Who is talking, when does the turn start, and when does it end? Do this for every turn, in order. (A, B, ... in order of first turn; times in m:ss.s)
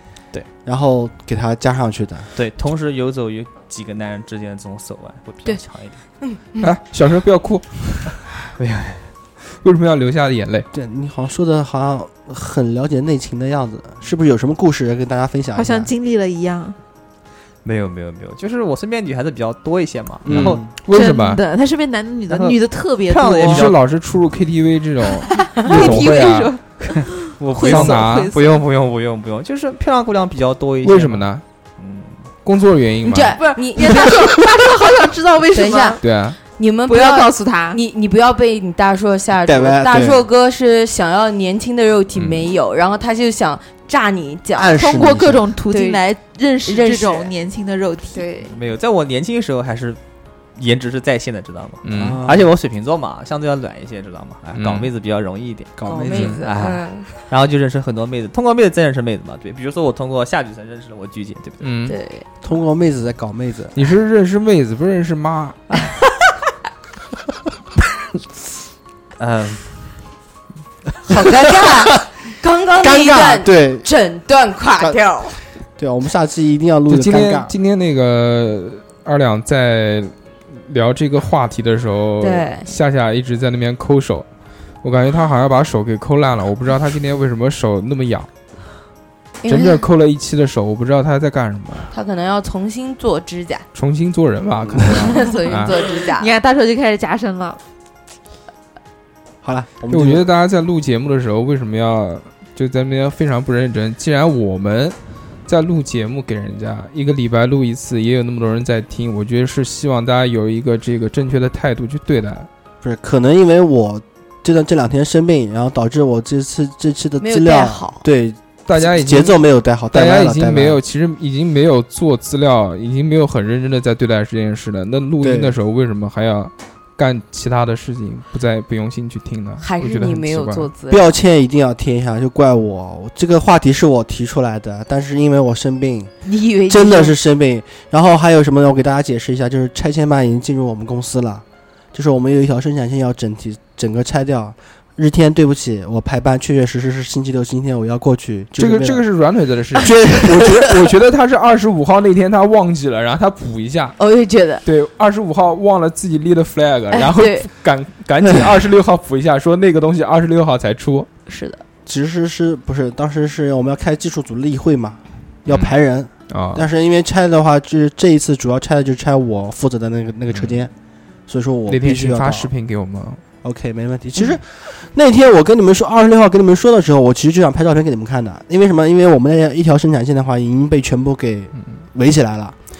0:00.6-0:02.3 A
0:02.4-0:06.0 B
0:06.2-0:06.7 C
0:06.6-0:08.2 D
0:08.6-0:09.1 B
0:09.5-0:10.7 D
0:10.7-0:15.9 A
0:15.5-0:16.8 E
0:17.6-0:20.6 B
0:20.2-0:20.7 A
0:20.3-0:21.4 D
0:20.9-0:23.7 E
0:22.3-0:23.7 B
0:23.4-0:26.6 D
0:25.2-0:28.6 E
0:26.9-0:31.2 B
0:27.6-0:28.3 D
0:30.8-0:31.4 D
0:31.8-0:32.2 B
0:32.4-0:33.4 D
0:33.0-0:34.4 C
0:33.3-0:36.0 E
0:35.5-0:45.1 C
0:36.0-0:36.4 D
0:36.9-0:37.8 E
0:39.4-0:40.2 A
0:42.1-0:42.4 D
0:44.6-0:45.4 A
0:44.8-0:48.2 E
0:45.7-0:46.0 C
0:46.6-0:47.3 C
0:48.1-0:48.6 C
0:48.5-0:50.0 B
0:50.5-0:55.7 B
0:51.8-0:52.2 D
0:52.0-0:52.5 A
0:54.5-0:54.9 D
0:55.8-0:56.4 A
0:55.8-0:57.3 C
0:56.1-0:56.4 D
0:56.4-1:01.7 B
1:01.6-1:02.0 D
1:01.9-1:02.3 C
1:02.4-1:03.8 A
1:03.7-1:05.6 D
1:09.2-1:09.8 B
1:11.1-1:15.4 C
1:11.6-1:12.0 A
1:12.8-1:13.9 A
1:15.8-1:17.5 A
1:16.9-1:24.2 D
1:22.2-1:22.7 C
1:24.8-1:28.3 D
1:29.4-1:29.8 C
1:29.5-1:31.9 D
1:31.9-1:33.6 C
1:33.7-1:35.7 D
1:34.8-1:36.3 C
1:35.1-1:37.6 E
1:39.4-1:40.3 A
1:39.9-1:45.0 D
1:45.5-1:52.5 D
1:52.8-2:00.8 A
1:57.2-1:58.1 C
1:58.7-1:59.4 D
1:59.9-2:10.7 D
2:05.2-2:05.6 A
2:09.6-2:11.1 C
2:10.9-2:16.1 A
2:16.2-2:17.2 C
2:16.7-2:29.0 A
2:28.6-2:34.0 D
2:29.8-2:30.9 A
2:34.0-2:34.6 C
2:34.6-2:41.1 D
2:36.9-2:37.5 C
2:41.3-2:41.6 C
2:41.8-2:50.7 A
2:46.3-2:46.7 D
2:50.3-2:50.6 D
2:51.3-2:52.5 A
2:51.7-2:53.2 D
2:53.4-3:02.6 A